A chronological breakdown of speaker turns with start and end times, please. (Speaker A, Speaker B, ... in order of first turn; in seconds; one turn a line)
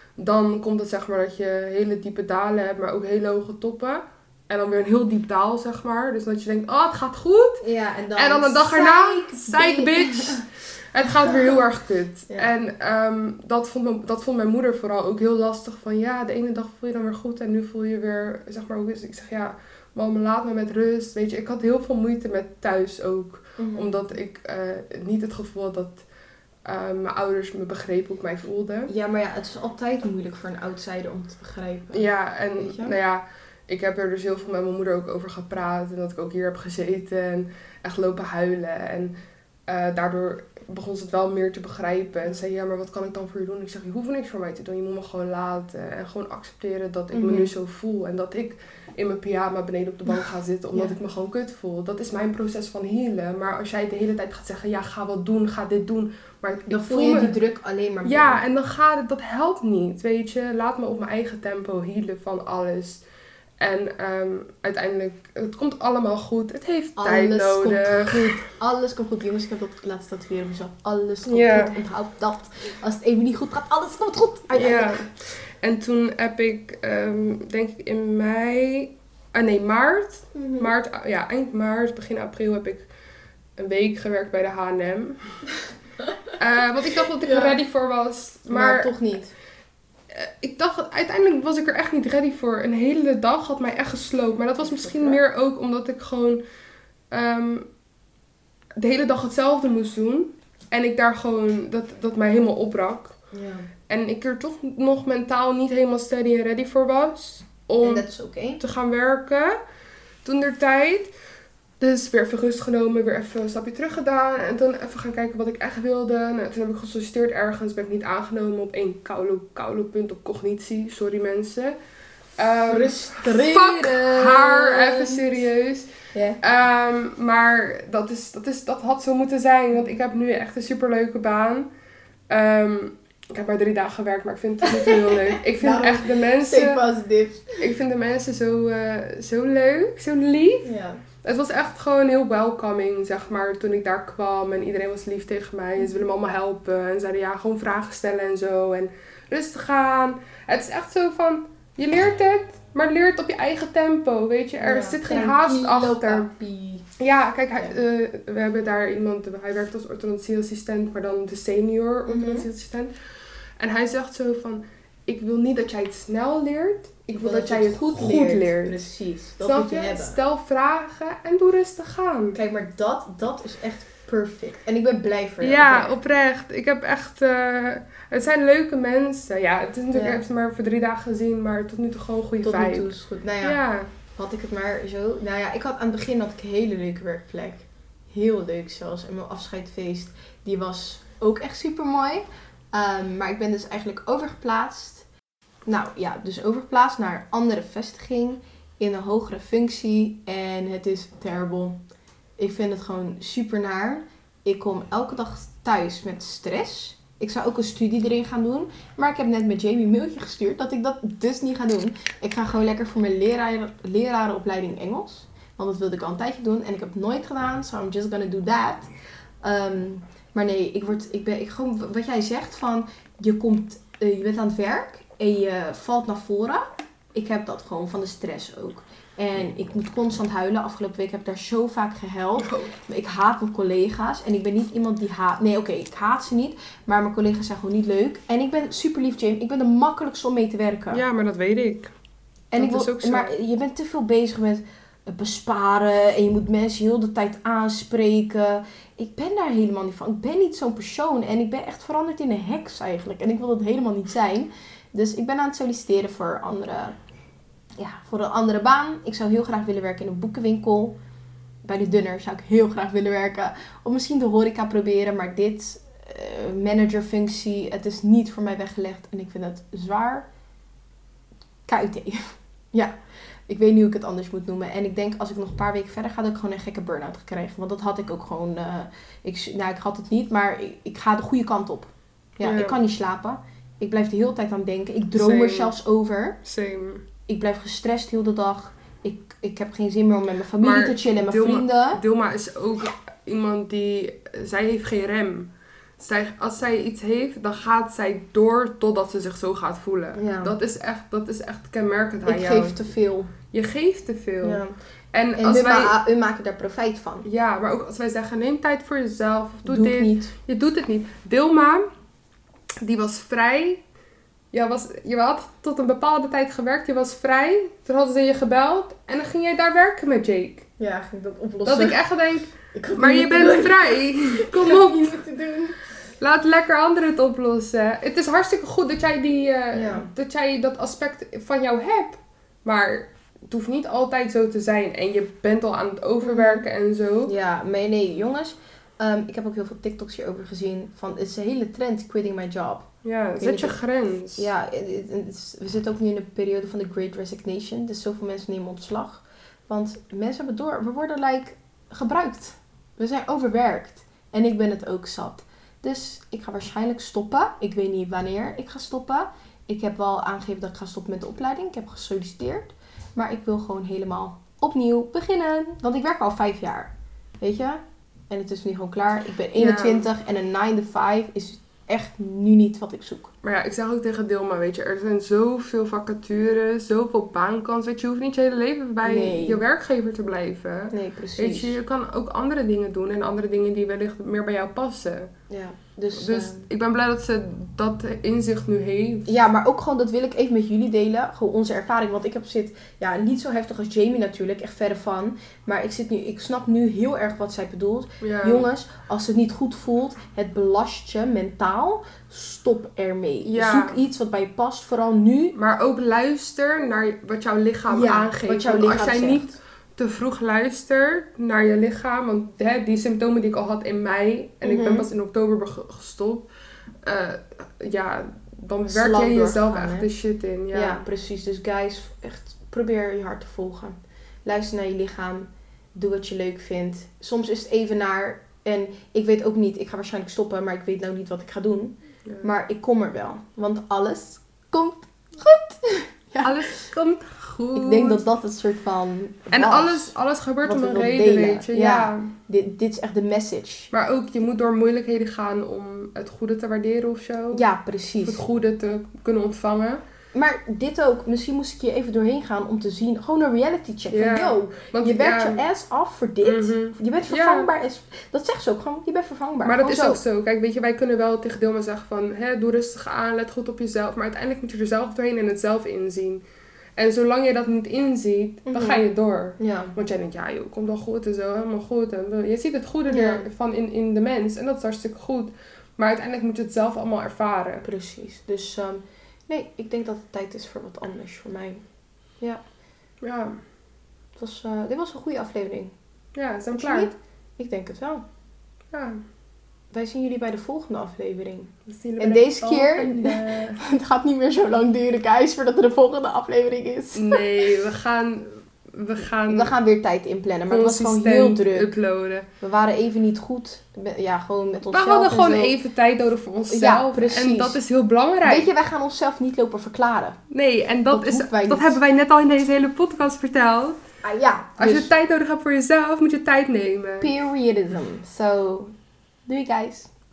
Speaker A: 0.2-7.6
Speaker B: 7.6-10.4
Speaker A: 8.2-26.0
Speaker B: 23.6-24.1
Speaker A: 26.6-28.9
Speaker B: 28.9-33.0
Speaker A: 31.9-39.1
Speaker A: 39.7-57.3
Speaker B: 47.1-47.5
Speaker B: 56.7-58.4
Speaker A: 58.0-63.0
Speaker A: 63.6-68.2
Speaker B: 67.0-75.0
Speaker A: 71.2-71.8
Speaker A: 74.5-82.9
Speaker B: 80.3-80.7
Speaker A: 83.6-85.2
Speaker A: 86.4-88.9
Speaker B: 87.2-87.5
Speaker B: 88.5-89.3
Speaker A: 90.1-96.4
Speaker B: 94.6-95.2
Speaker A: 97.1-97.7
Speaker A: 98.8-103.1
Speaker B: 103.3-103.7
Speaker A: 103.9-108.0
Speaker B: 107.8-108.6
Speaker A: 108.6-109.5
Speaker A: 110.2-111.1
Speaker A: 111.8-121.7
Speaker A: 122.4-125.8
Speaker B: 122.7-125.4
Speaker B: 126.1-126.4
Speaker A: 126.4-131.7
Speaker A: 132.3-136.8
Speaker B: 134.8-137.6
Speaker A: 137.6-140.7
Speaker B: 140.6-141.0
Speaker A: 141.2-156.3
Speaker B: 154.6-156.9
Speaker A: 157.0-162.9
Speaker B: 162.1-162.5
Speaker A: 163.6-168.8
Speaker B: 167.1-170.2
Speaker A: 169.4-172.4
Speaker B: 172.3-175.9
Speaker A: 175.4-182.9
Speaker B: 179.9-180.2
Speaker B: 182.4-195.1
Speaker A: 183.4-183.9
Speaker B: 195.6-201.8
Speaker B: 202.4-218.9
Speaker B: 219.4-241.0
Speaker A: 232.4-232.7
Speaker A: 240.9-241.9
Speaker B: 242.5-256.9
Speaker A: 242.6-243.3
Speaker B: 257.8-261.0
Speaker B: 261.6-270.3
Speaker B: 271.7-272.9
Speaker B: 273.5-286.4
Speaker A: 282.4-282.8
Speaker A: 285.1-285.7
Speaker A: 286.4-287.0
Speaker B: 287.3-292.0
Speaker A: 290.6-302.7
Speaker B: 300.1-300.6
Speaker B: 302.2-303.3
Speaker A: 303.5-305.9
Speaker B: 304.4-304.7
Speaker B: 305.4-307.2
Speaker A: 307.2-311.8
Speaker B: 309.6-310.3
Speaker A: 312.8-313.8
Speaker A: 314.5-320.6
Speaker B: 320.8-322.0
Speaker A: 321.6-325.2
Speaker B: 322.5-325.9
Speaker A: 326.2-337.3
Speaker B: 329.7-330.1
Speaker B: 336.2-336.6
Speaker B: 337.2-343.8
Speaker A: 343.0-344.5
Speaker B: 344.3-373.3
Speaker A: 369.6-370.1
Speaker A: 373.4-385.3
Speaker B: 379.0-379.6
Speaker B: 380.9-381.8
Speaker B: 385.5-386.7
Speaker A: 386.1-389.3
Speaker B: 389.3-405.5
Speaker A: 398.2-398.6
Speaker A: 403.4-404.0
Speaker A: 405.5-416.5
Speaker B: 407.9-409.6
Speaker B: 414.6-415.1
Speaker A: 417.0-421.0
Speaker B: 418.9-420.1
Speaker B: 420.7-436.9
Speaker A: 432.2-432.5
Speaker A: 436.4-438.2
Speaker B: 437.7-443.9
Speaker A: 439.5-442.3
Speaker A: 443.9-447.6
Speaker B: 447.5-448.4
Speaker A: 448.2-450.0
Speaker B: 450.3-460.2
Speaker A: 454.1-455.6
Speaker A: 456.4-457.7
Speaker A: 459.6-466.4
Speaker A: 467.0-477.9
Speaker B: 468.7-469.0
Speaker B: 469.6-469.9
Speaker B: 473.1-473.5
Speaker B: 477.8-481.8
Speaker A: 483.2-483.6
Speaker B: 484.4-485.9
Speaker A: 486.3-487.1
Speaker B: 486.7-488.2
Speaker A: 488.9-489.2
Speaker B: 489.9-497.5
Speaker A: 491.9-493.8
Speaker A: 497.1-499.7
Speaker B: 499.5-501.9
Speaker A: 500.7-502.4
Speaker B: 502.6-505.7
Speaker A: 504.9-508.7
Speaker B: 506.7-507.8
Speaker B: 508.4-510.4
Speaker A: 510.5-514.0
Speaker B: 511.1-512.0
Speaker B: 514.2-515.1
Speaker A: 514.8-517.3
Speaker B: 517.2-518.9
Speaker B: 519.5-520.1